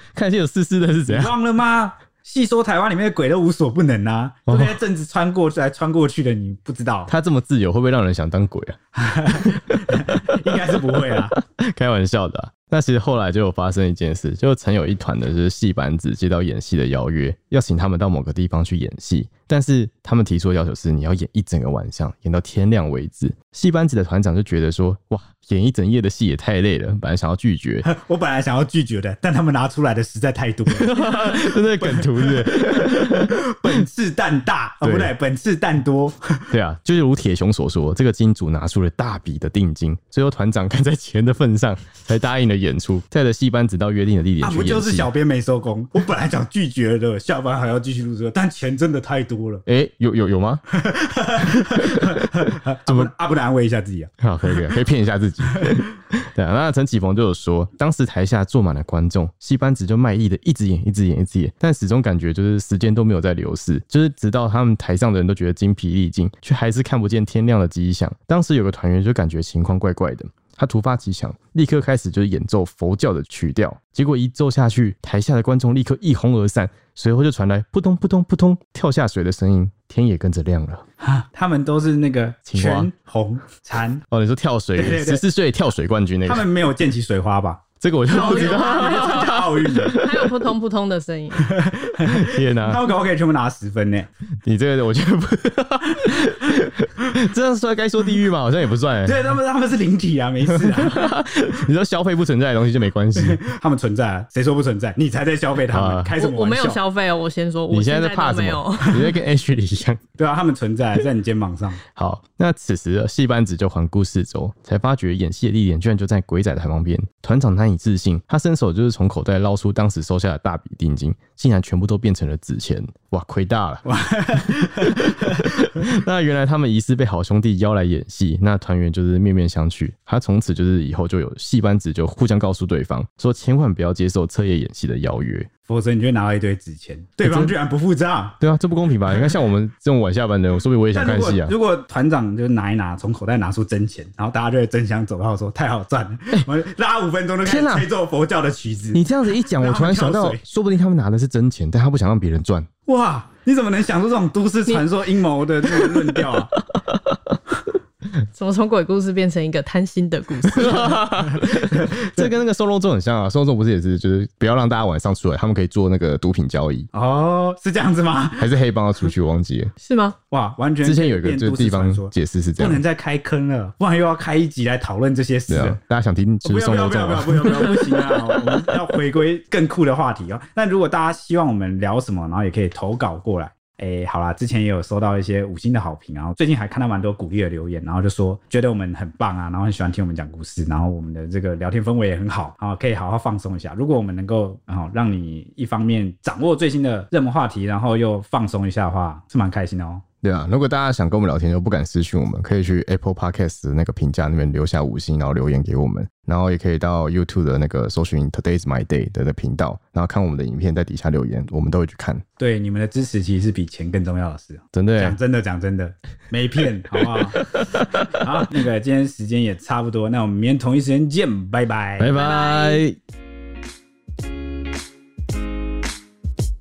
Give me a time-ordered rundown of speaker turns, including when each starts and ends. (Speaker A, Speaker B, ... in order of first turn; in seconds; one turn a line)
Speaker A: 0.1-1.3
Speaker B: 1.1-7.1
Speaker A: 4.5-4.8
Speaker A: 7.1-8.8
Speaker B: 8.9-11.3
Speaker A: 11.1-27.9
Speaker B: 27.8-36.5
Speaker A: 30.7-33.3
Speaker A: 34.8-35.1
Speaker A: 36.5-45.1
Speaker B: 44.4-49.6
Speaker A: 49.6-50.6
Speaker B: 50.7-54.1
Speaker A: 52.0-53.1
Speaker A: 54.2-80.8
Speaker B: 81.0-84.0
Speaker A: 82.5-82.9
Speaker A: 84.1-86.5
Speaker B: 84.8-85.2
Speaker B: 86.2-90.0
Speaker A: 87.8-90.1
Speaker C: 88.1-91.5
Speaker B: 91.4-94.1
Speaker A: 92.0-92.8
Speaker A: 94.4-99.2
Speaker B: 99.0-101.1
Speaker A: 100.5-103.4
Speaker B: 103.2-106.8
Speaker A: 105.7-106.1
Speaker C: 106.2-109.1
Speaker A: 107.7-110.0
Speaker B: 110.2-111.8
Speaker A: 112.0-123.8
Speaker B: 123.8-125.1
Speaker A: 124.8-135.5
Speaker B: 135.7-138.3
Speaker A: 137.2-137.5
Speaker A: 138.4-141.5
Speaker B: 140.9-150.4
Speaker A: 147.4-147.9
Speaker A: 148.9-152.7
Speaker B: 152.9-156.5
Speaker A: 155.7-156.0
Speaker A: 156.6-157.3
Speaker C: 158.3-161.0
Speaker A: 160.4-166.9
Speaker B: 161.7-162.3
Speaker B: 166.9-168.5
Speaker A: 168.4-169.7
Speaker C: 169.8-170.2
Speaker B: 170.3-175.8
Speaker A: 170.8-172.8
Speaker A: 175.5-178.7
Speaker B: 176.4-200.0
Speaker A: 200.2-212.2
Speaker B: 212.4-217.5
Speaker A: 214.7-215.2
Speaker A: 217.4-218.1
Speaker B: 218.0-222.8
Speaker A: 222.0-223.0